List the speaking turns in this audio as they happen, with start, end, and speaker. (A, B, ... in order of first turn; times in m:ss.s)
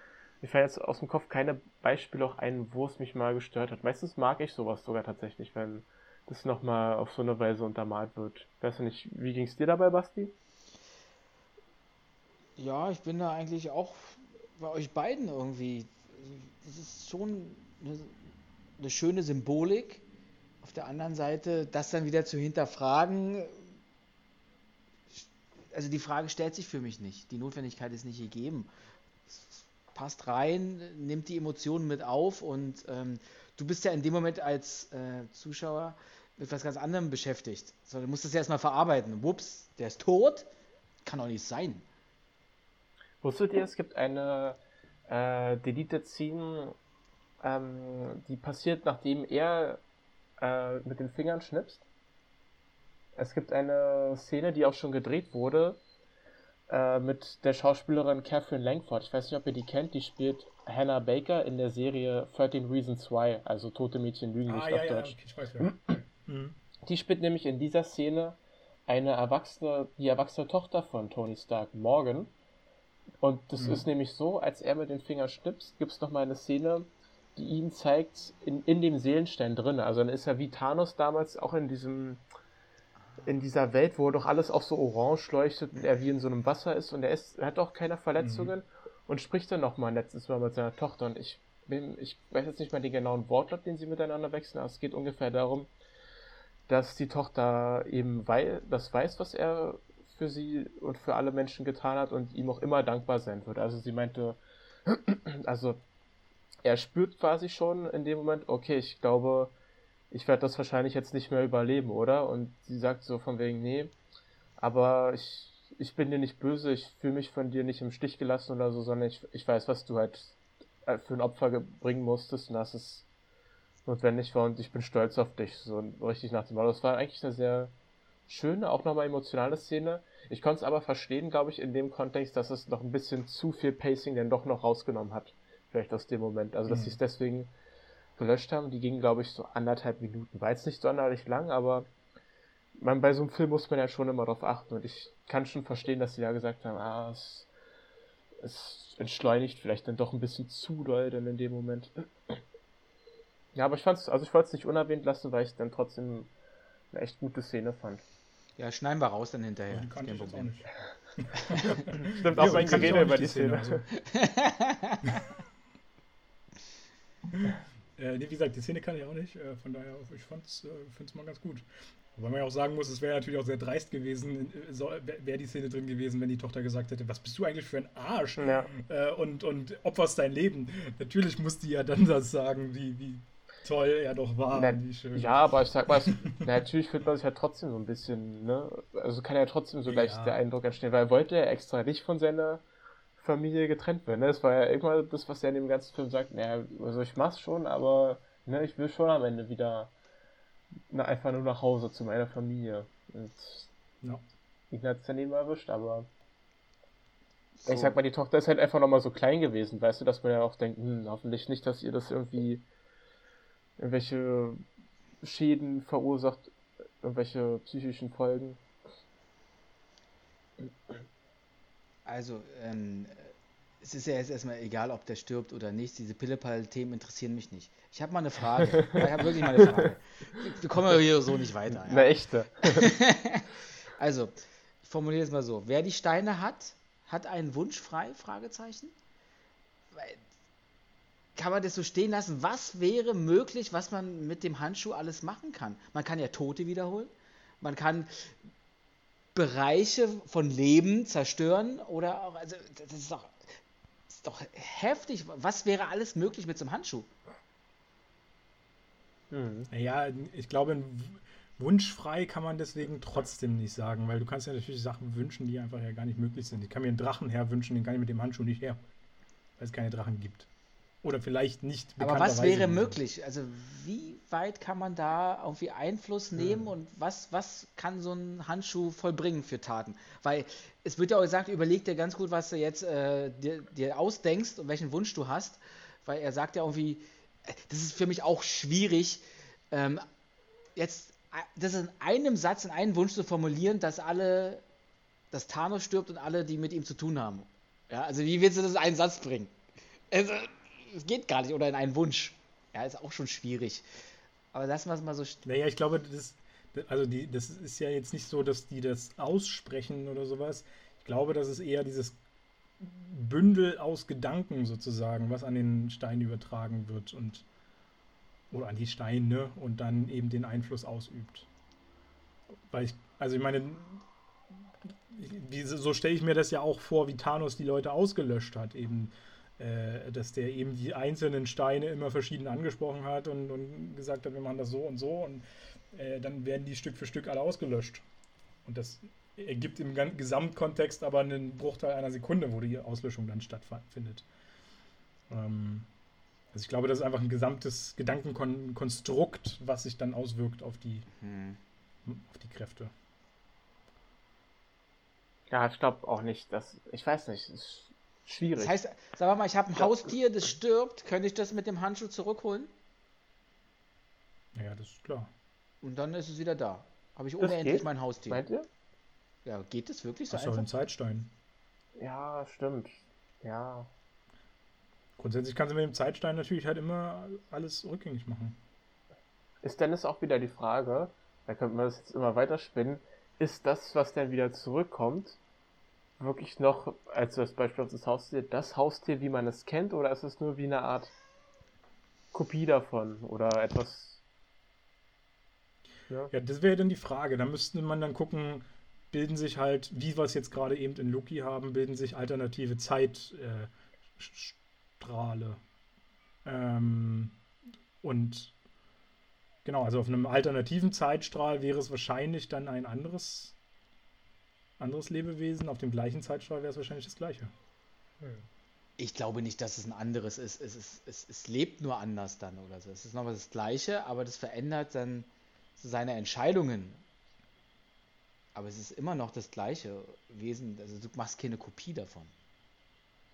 0:00.4-0:10.3 A
0:12.6-0:18.2 B
0:18.8-0:20.0 B
0:20.6-0:23.6 B
0:25.2-0:28.7 B
0:29.3-0:40.5 B
0:41.0-0:41.8 B
0:43.2-0:46.8 A
0:47.4-0:49.8 A
0:50.4-0:51.8 A
0:53.2-0:55.8 A
0:56.7-1:05.9 A
1:04.5-1:06.6 C
1:06.8-1:12.3 A
1:13.2-1:22.2 A
1:13.6-1:13.9 C
1:23.2-1:35.7 A
1:28.2-1:28.5 C
1:36.7-1:45.8 A
1:46.6-1:49.5 A
1:50.1-1:53.9 A
1:54.6-2:03.0 A
2:03.8-2:07.7 A
2:08.3-2:17.5 A
2:16.7-2:17.0 C
2:18.2-2:21.9 A
2:22.8-2:27.5 A
2:28.4-2:32.4 A
2:33.5-2:36.3 A
2:36.9-2:38.0 A
2:38.6-2:40.5 B
2:39.7-2:43.9 C
2:41.4-2:41.8 B
2:42.0-2:43.8 A
2:43.9-2:45.2 B
2:47.3-3:06.5 C
2:58.4-2:58.7 A
3:04.5-3:12.6 A
3:09.8-3:10.4 C
3:13.2-3:19.9 A
3:20.9-3:23.7 A
3:24.7-3:26.1 A
3:27.6-3:28.0 B
3:27.6-3:32.6 A
3:33.8-3:34.6 A
3:35.2-3:38.6 A
3:42.0-3:58.9 B
3:49.6-3:49.8 A
3:51.7-3:53.0 A
3:59.9-4:00.2 B
4:01.4-4:08.3 B
4:09.3-4:13.5 B
4:14.1-4:17.1 B
4:19.3-4:19.7 A
4:19.7-4:28.8 C
4:29.6-4:30.5 C
4:31.0-4:33.0 C
4:32.0-4:50.0 B
4:50.8-4:54.6 B
4:55.3-4:59.5 B
5:00.1-5:03.8 B
5:04.5-5:05.4 B
5:05.4-5:12.2 C
5:12.8-5:17.4 C
5:18.5-5:21.5 C
5:22.7-5:24.0 C
5:25.1-5:38.0 C
5:38.6-5:44.2 C
5:45.3-5:45.9 C
5:46.5-5:51.0 C
5:51.1-5:51.6 B
5:52.0-5:52.9 C
5:55.5-5:58.8 A
5:58.6-6:02.7 B
5:59.8-6:00.1 A
6:04.5-6:05.3 C
6:05.8-6:08.4 B
6:07.4-6:08.7 A
6:09.4-6:10.7 B
6:10.3-6:11.3 C
6:12.0-6:13.9 A
6:15.2-6:18.6 C
6:19.6-6:25.4 A
6:26.2-6:31.1 A
6:32.3-6:34.2 A
6:36.3-6:45.6 C
6:46.4-6:47.4 C
6:48.0-6:48.5 C
6:49.6-6:53.6 C
6:54.8-6:57.5 C
6:59.0-7:07.0 B
7:08.5-7:12.3 B